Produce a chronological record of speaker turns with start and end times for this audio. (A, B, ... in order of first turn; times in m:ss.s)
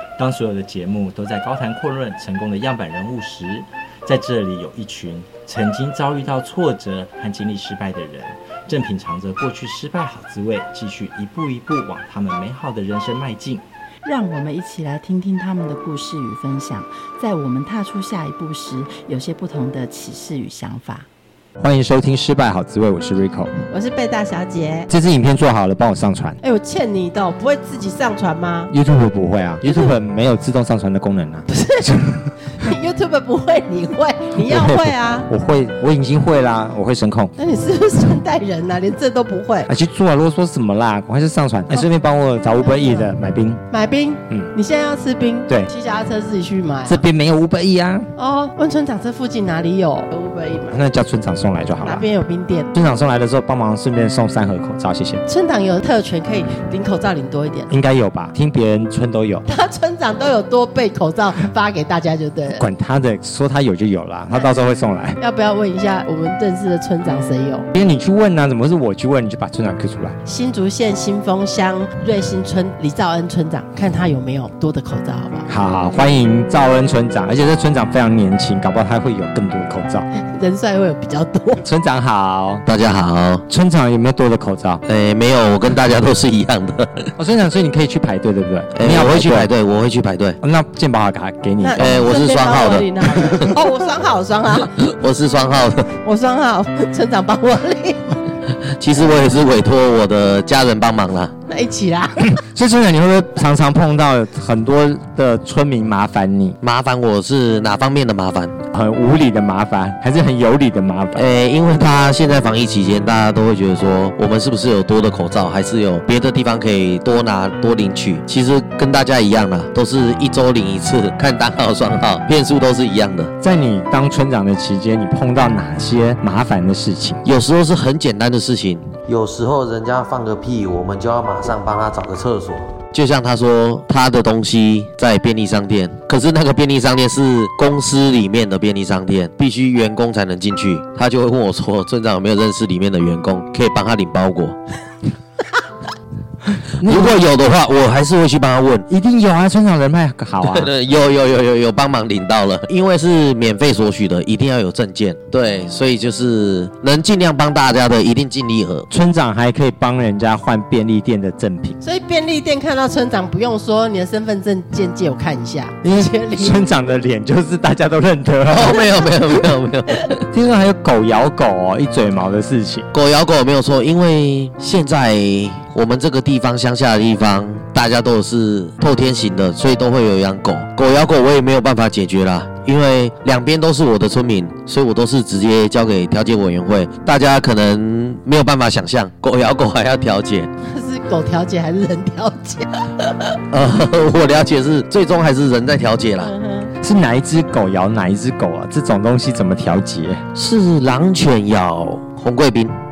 0:00.2-0:13.6 A
0:14.0-0:21.1 B
0:21.6-0:23.5 A
0:23.7-0:24.9 C
0:24.9-0:26.4 A
0:26.4-0:28.7 C
0:28.7-0:32.1 A
0:29.6-0:30.0 C
0:31.5-0:31.9 C
0:32.5-0:35.3 C
0:34.4-0:37.3 A
0:37.4-0:39.7 C
0:39.7-0:43.6 A
0:42.6-0:43.1 C
0:43.7-0:47.0 C
0:46.9-0:48.1 A
0:48.2-0:50.8 C
0:50.7-0:52.1 A
0:51.8-0:52.7 C
0:52.7-0:55.2 A
0:55.3-0:57.7 C
0:57.7-0:59.5 A
0:59.5-1:02.6 C
1:02.5-1:05.2 A
1:05.2-1:07.7 C
1:07.7-1:10.2 A
1:10.2-1:15.5 C
1:15.5-1:20.1 A
1:20.2-1:21.6 C
1:21.6-1:22.6 A
1:22.7-1:23.4 D
1:23.5-1:24.8 A
1:24.9-1:27.1 D
1:27.2-1:29.5 A
1:28.8-1:30.4 D
1:30.4-1:32.1 A
1:31.6-1:34.8 C
1:31.8-1:33.5 D
1:34.8-1:35.9 D
1:36.0-1:38.2 C
1:38.7-1:41.3 D
1:41.5-1:42.3 C
1:42.2-1:46.6 A
1:46.6-1:48.6 D
1:48.7-1:51.3 A
1:51.2-2:03.3 D
2:03.4-2:07.2 A
2:07.2-2:24.6 D
2:26.8-2:27.3 A
2:26.8-2:28.9 D
2:28.9-2:30.7 A
2:30.4-2:38.9 D
2:38.9-2:41.8 A
2:41.8-2:46.7 C
2:45.8-2:48.8 A
2:48.5-2:50.2 D
2:50.3-2:52.9 A
2:52.9-3:10.5 D
3:10.6-3:12.8 C
3:13.5-3:16.3 D
3:16.2-3:16.7 C
3:16.8-3:20.2 A
3:20.4-3:22.8 D